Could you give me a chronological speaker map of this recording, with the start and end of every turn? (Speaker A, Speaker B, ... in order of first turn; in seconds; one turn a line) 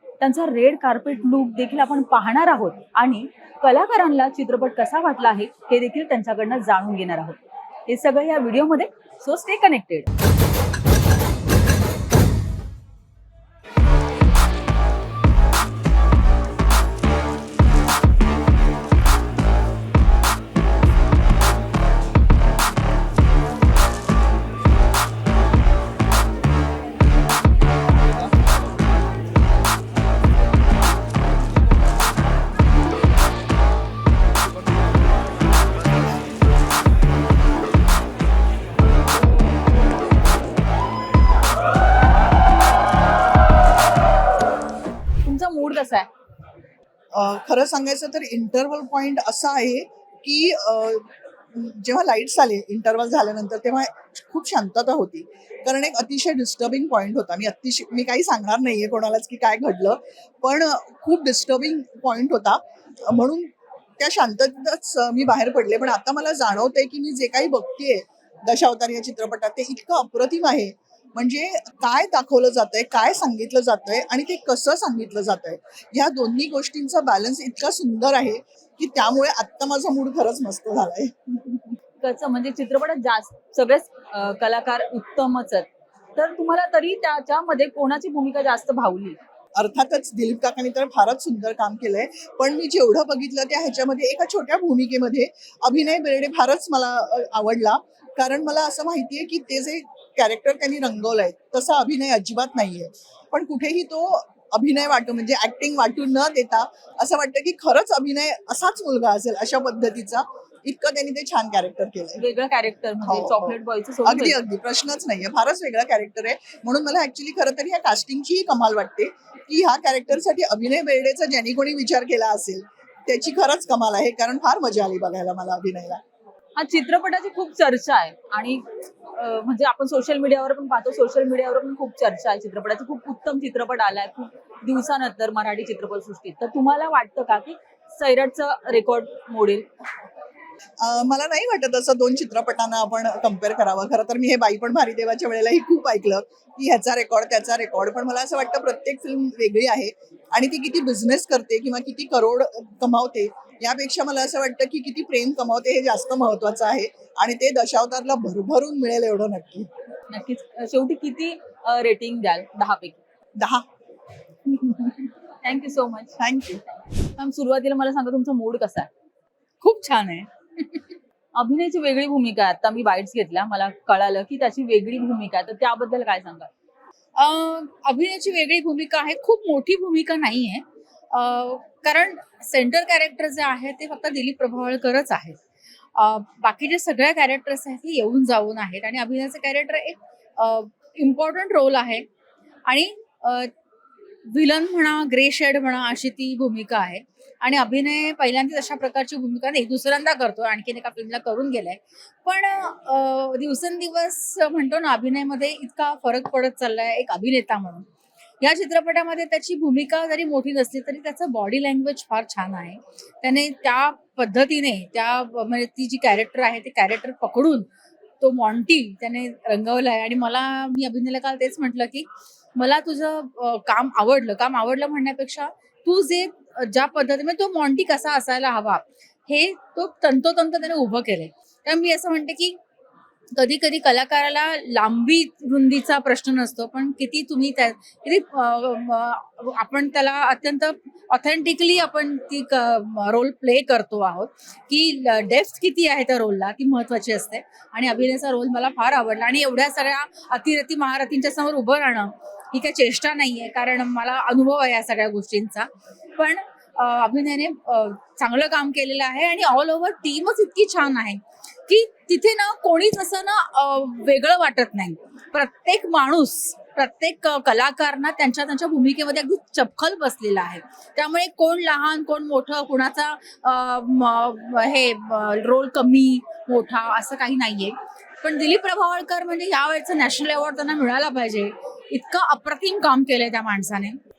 Speaker A: 0.2-10.1
Speaker A: 45.2-46.1
Speaker B: 47.1-81.6
Speaker A: 82.0-89.2
Speaker B: 89.5-112.2
Speaker A: 112.2-114.4
Speaker B: 113.0-126.0
Speaker A: 126.5-139.7
Speaker B: 140.8-159.7
Speaker A: 160.1-163.0
Speaker B: 163.4-163.6
Speaker A: 165.4-166.1
Speaker B: 166.2-166.6
Speaker A: 167.2-168.9
Speaker C: 169.6-170.8
Speaker A: 171.3-176.5
Speaker C: 177.2-185.4
Speaker C: 185.9-192.0
Speaker C: 192.7-193.5
Speaker C: 194.2-207.8
Speaker C: 208.4-217.7
Speaker C: 218.2-232.6
Speaker C: 233.3-284.0